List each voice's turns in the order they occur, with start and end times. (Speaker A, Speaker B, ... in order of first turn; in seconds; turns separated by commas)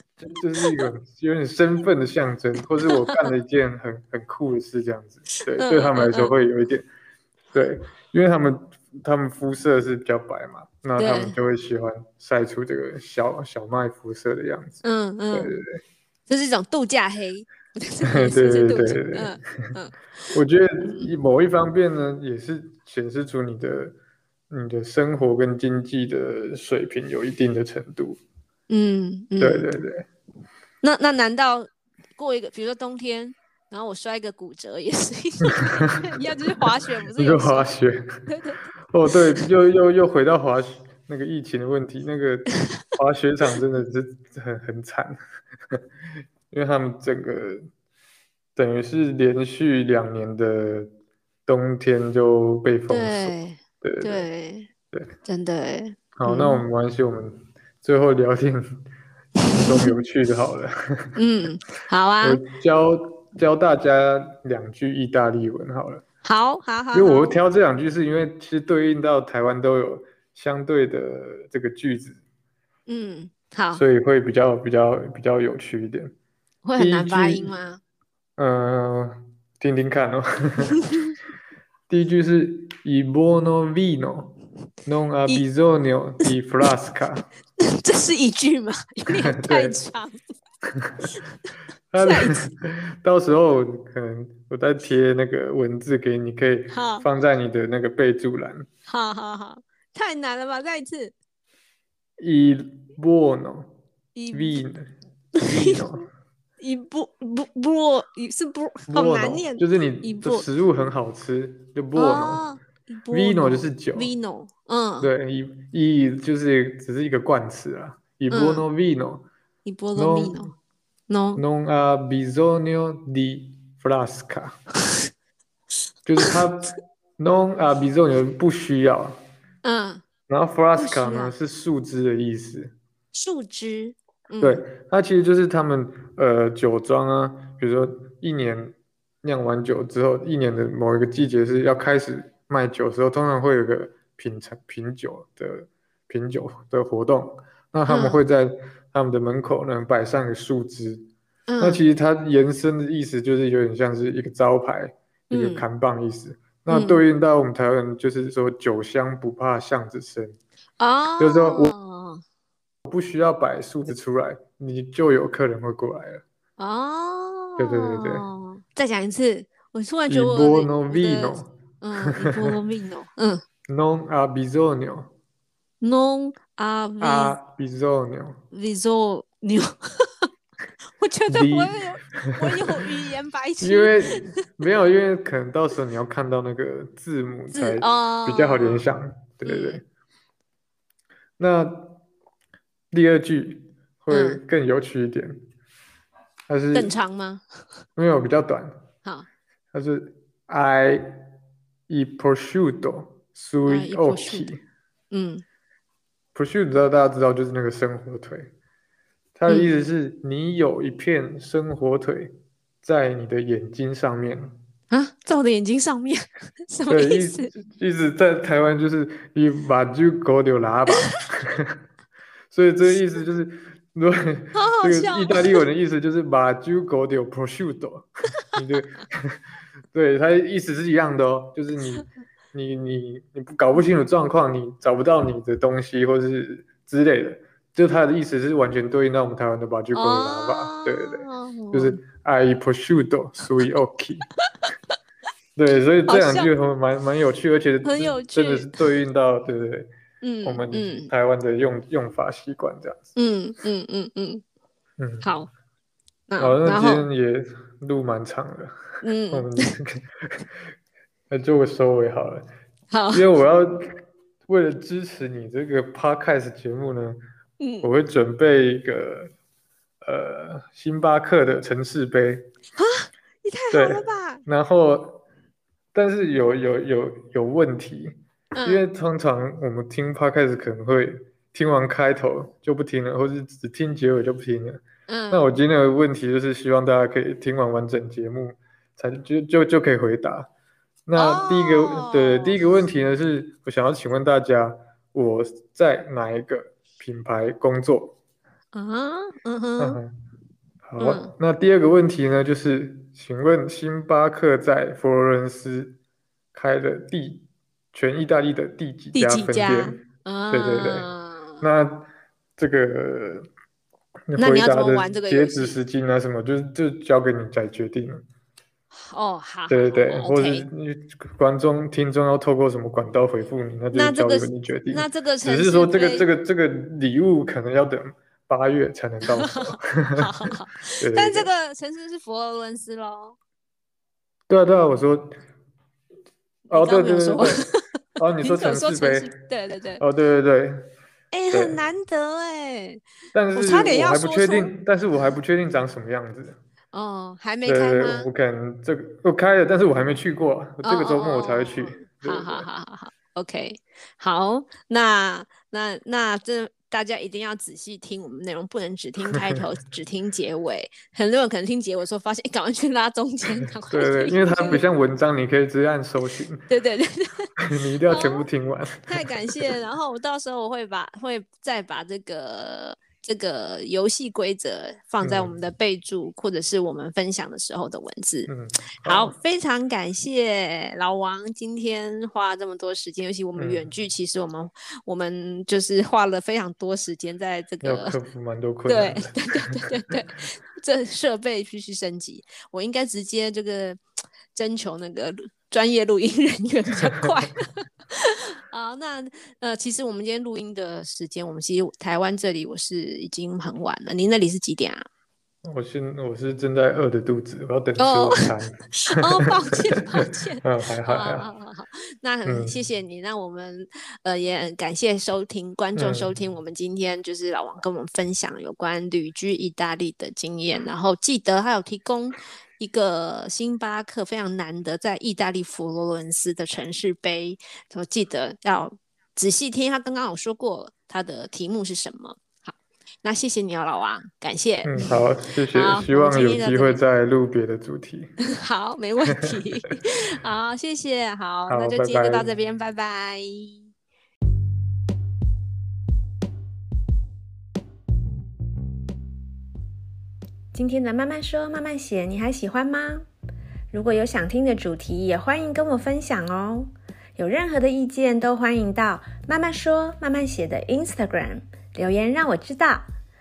Speaker A: 0.2-6.9, Speaker B: 0.6-0.8, Speaker B: 2.9-3.3, Speaker B: 5.5-6.3, Speaker A: 7.5-15.8, Speaker B: 11.0-11.4, Speaker B: 14.8-15.6, Speaker B: 16.3-21.1, Speaker A: 18.1-19.7, Speaker A: 20.3-23.9, Speaker A: 24.5-28.2, Speaker B: 28.7-29.7, Speaker A: 29.4-30.0, Speaker B: 30.8-37.7, Speaker A: 37.2-38.1, Speaker B: 38.3-38.6, Speaker A: 38.9-45.2, Speaker B: 39.1-39.5, Speaker A: 46.5-47.7, Speaker A: 48.5-50.9, Speaker A: 51.5-54.2, Speaker B: 52.9-54.7, Speaker B: 55.2-56.6, Speaker A: 56.1-58.8, Speaker B: 59.4-60.0, Speaker A: 59.5-61.1, Speaker B: 61.1-62.4, Speaker A: 62.2-66.0, Speaker B: 66.2-67.4, Speaker A: 66.9-72.2, Speaker B: 72.9-73.8, Speaker A: 73.7-76.1, Speaker B: 76.6-77.8, Speaker A: 76.8-77.5, Speaker A: 78.4-80.8, Speaker B: 80.8-81.1, Speaker A: 81.9-84.3, Speaker A: 84.8-87.3, Speaker B: 87.6-90.2, Speaker A: 89.2-89.7, Speaker A: 90.7-91.1, Speaker A: 91.9-98.7, Speaker B: 92.0-92.5, Speaker B: 96.7-97.1, Speaker B: 98.9-101.1, Speaker A: 102.2-103.7, Speaker B: 104.1-104.6, Speaker A: 104.3-104.9, Speaker B: 105.4-105.9, Speaker A: 105.6-106.0, Speaker B: 106.6-110.5, Speaker A: 108.9-112.4, Speaker B: 111.9-115.1, Speaker A: 113.1-114.1, Speaker A: 115.0-119.2, Speaker B: 118.3-118.7, Speaker B: 119.6-120.5, Speaker A: 120.0-120.5, Speaker B: 121.1-121.4, Speaker A: 121.3-124.6, Speaker A: 126.0-129.2, Speaker B: 129.6-130.0, Speaker A: 130.3-132.7, Speaker B: 130.8-131.3, Speaker B: 133.1-134.6, Speaker A: 134.4-151.1, Speaker B: 147.9-148.2, Speaker B: 151.5-151.8, Speaker A: 151.6-160.4, Speaker B: 155.3-155.6, Speaker B: 156.7-157.0, Speaker B: 160.8-162.2, Speaker A: 161.2-161.7, Speaker A: 162.8-166.2, Speaker B: 166.6-173.4, Speaker A: 167.6-168.3, Speaker A: 170.1-172.6, Speaker A: 173.7-175.1, Speaker B: 175.8-177.4, Speaker A: 177.0-178.4, Speaker B: 178.5-180.3, Speaker B: 181.0-184.2, Speaker A: 181.3-182.8, Speaker A: 183.6-189.8, Speaker B: 187.5-188.8, Speaker B: 189.4-189.8, Speaker A: 191.4-192.0, Speaker A: 192.9-195.4, Speaker B: 194.1-194.4, Speaker A: 196.5-196.9, Speaker B: 196.7-197.4, Speaker A: 198.0-198.8, Speaker A: 199.7-201.3, Speaker A: 201.9-204.6, Speaker B: 203.7-204.5, Speaker B: 205.1-205.4, Speaker A: 206.3-208.5, Speaker A: 209.4-214.6, Speaker B: 214.9-217.5, Speaker A: 216.9-221.8, Speaker A: 222.5-244.3, Speaker B: 224.5-225.6, Speaker B: 239.9-242.0, Speaker A: 245.6-249.9, Speaker B: 246.1-246.5, Speaker B: 247.8-248.7, Speaker B: 250.2-251.1, Speaker A: 250.4-253.1, Speaker B: 253.1-254.4, Speaker A: 255.0-255.2, Speaker B: 255.2-255.5, Speaker B: 256.3-257.1, Speaker A: 256.4-260.6, Speaker B: 259.0-259.7, Speaker A: 261.3-262.4, Speaker B: 262.9-263.2, Speaker A: 263.1-263.8, Speaker A: 264.5-267.2, Speaker B: 267.6-267.9, Speaker A: 267.8-269.3, Speaker A: 270.0-272.5, Speaker B: 272.8-274.4, Speaker A: 273.7-275.2, Speaker A: 275.9-290.5, Speaker B: 278.5-278.9, Speaker B: 285.1-285.5, Speaker A: 291.1-298.1, Speaker B: 291.1-292.6, Speaker B: 298.7-300.0, Speaker A: 299.8-300.1, Speaker A: 300.9-306.0, Speaker B: 301.0-301.3, Speaker A: 306.5-311.1, Speaker B: 309.1-311.6, Speaker A: 311.6-313.5, Speaker A: 314.3-318.2, Speaker B: 314.4-315.8, Speaker B: 318.9-320.6, Speaker A: 319.7-330.2, Speaker B: 323.9-326.3, Speaker B: 329.2-333.4, Speaker A: 331.0-331.5, Speaker A: 334.5-335.3, Speaker A: 336.7-337.6, Speaker B: 336.7-337.8, Speaker A: 338.2-339.3, Speaker B: 338.4-340.0, Speaker A: 340.0-340.9, Speaker B: 341.3-343.0, Speaker A: 341.5-341.8, Speaker A: 343.3-346.6, Speaker B: 343.5-344.7, Speaker B: 346.9-348.3, Speaker A: 347.6-352.7, Speaker B: 350.8-364.8, Speaker A: 363.9-366.6, Speaker B: 366.7-367.5, Speaker A: 367.6-369.7, Speaker B: 368.1-368.4, Speaker B: 369.1-378.5, Speaker A: 375.2-375.5, Speaker A: 378.5-379.4, Speaker B: 379.0-388.2, Speaker A: 383.6-383.8, Speaker A: 387.8-389.8, Speaker B: 388.9-394.0, Speaker B: 394.5-405.0, Speaker A: 405.6-409.5, Speaker B: 408.0-435.2, Speaker A: 410.6-411.5, Speaker A: 412.4-412.7, Speaker A: 415.9-416.3, Speaker A: 434.8-438.4, Speaker B: 435.7-437.0, Speaker B: 438.4-443.9, Speaker A: 441.7-442.5, Speaker C: 450.7-453.2, Speaker C: 453.9-463.1